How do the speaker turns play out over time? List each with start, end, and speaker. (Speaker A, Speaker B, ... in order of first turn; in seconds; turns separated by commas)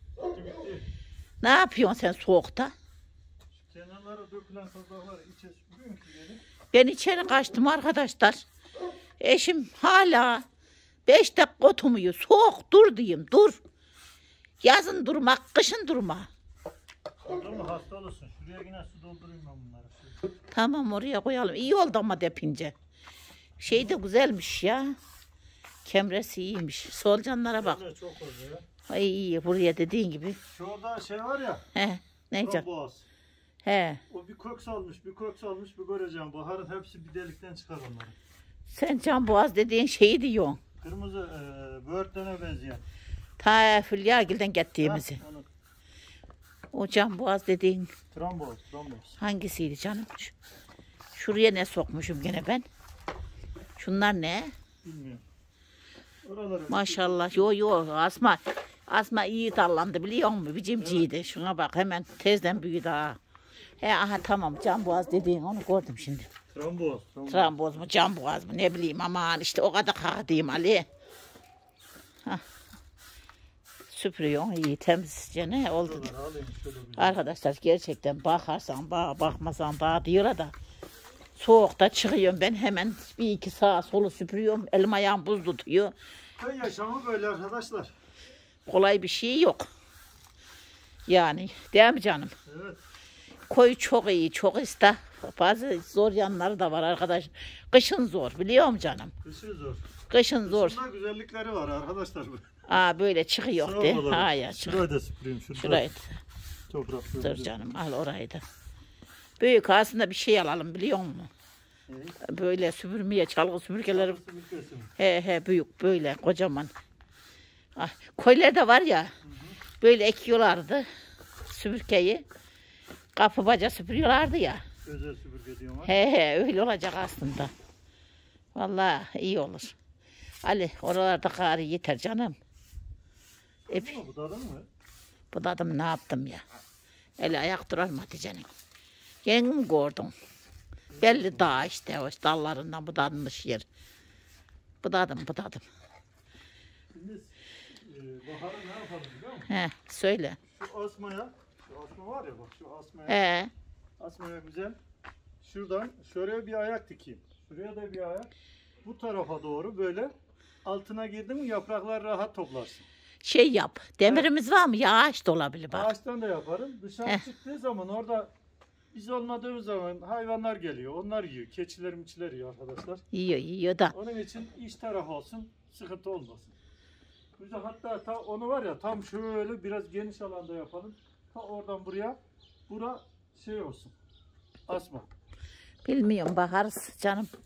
Speaker A: 0.3-0.9, Speaker B: 1.4-2.7, Speaker A: 3.6-6.4, Speaker B: 6.7-8.4, Speaker B: 9.2-10.4, Speaker B: 11.1-13.6, Speaker B: 14.6-16.3, Speaker A: 17.2-20.2, Speaker B: 20.5-22.7, Speaker B: 23.6-24.9, Speaker B: 25.8-27.8, Speaker A: 27.6-28.6, Speaker B: 28.9-30.4, Speaker A: 30.5-31.6, Speaker B: 31.8-32.7, Speaker A: 32.4-33.1, Speaker B: 33.6-34.0, Speaker A: 34.1-38.2, Speaker B: 38.7-40.6, Speaker A: 40.8-42.9, Speaker B: 43.4-45.2, Speaker A: 44.8-45.5, Speaker B: 46.7-47.9, Speaker A: 48.1-49.2, Speaker B: 49.2-50.4, Speaker B: 51.1-52.7, Speaker B: 53.8-54.5, Speaker A: 54.8-55.2, Speaker A: 56.2-57.5, Speaker B: 56.7-63.2, Speaker A: 60.8-61.1, Speaker B: 63.8-66.3, Speaker A: 66.5-67.5, Speaker B: 67.3-70.9, Speaker B: 73.9-76.1, Speaker A: 75.8-77.2, Speaker B: 77.0-80.5, Speaker B: 81.4-85.9, Speaker A: 86.4-87.9, Speaker B: 88.7-89.7, Speaker B: 91.1-92.3, Speaker A: 92.5-92.8, Speaker B: 93.5-99.1, Speaker A: 99.2-99.9, Speaker B: 100.1-100.8, Speaker A: 100.4-102.5, Speaker B: 102.7-104.9, Speaker A: 103.6-105.9, Speaker B: 105.6-106.2, Speaker A: 106.7-107.5, Speaker B: 107.2-108.4, Speaker B: 109.4-111.3, Speaker A: 111.9-112.2, Speaker B: 112.2-114.2, Speaker A: 113.9-114.9, Speaker B: 115.0-116.7, Speaker B: 117.8-119.1, Speaker A: 119.2-119.6, Speaker B: 119.8-120.9, Speaker B: 121.5-122.2, Speaker B: 123.2-124.6, Speaker A: 124.8-125.9, Speaker B: 125.8-127.5, Speaker B: 128.6-129.8, Speaker B: 130.4-132.4, Speaker B: 133.7-133.9, Speaker A: 133.7-134.7, Speaker B: 135.3-136.4, Speaker B: 137.2-138.5, Speaker B: 139.2-140.1, Speaker A: 140.9-141.6, Speaker B: 141.0-143.7, Speaker B: 144.8-145.6, Speaker A: 146.9-149.5, Speaker B: 149.5-150.4, Speaker A: 150.5-153.2, Speaker B: 153.1-153.5, Speaker A: 154.0-154.8, Speaker A: 155.4-158.3, Speaker A: 158.8-160.1, Speaker A: 160.6-162.9, Speaker B: 163.2-165.9, Speaker A: 164.0-164.3, Speaker A: 165.7-168.3, Speaker A: 168.9-173.0, Speaker B: 173.1-173.9, Speaker A: 173.9-176.6, Speaker A: 177.4-183.9, Speaker A: 184.7-185.1, Speaker B: 185.8-187.3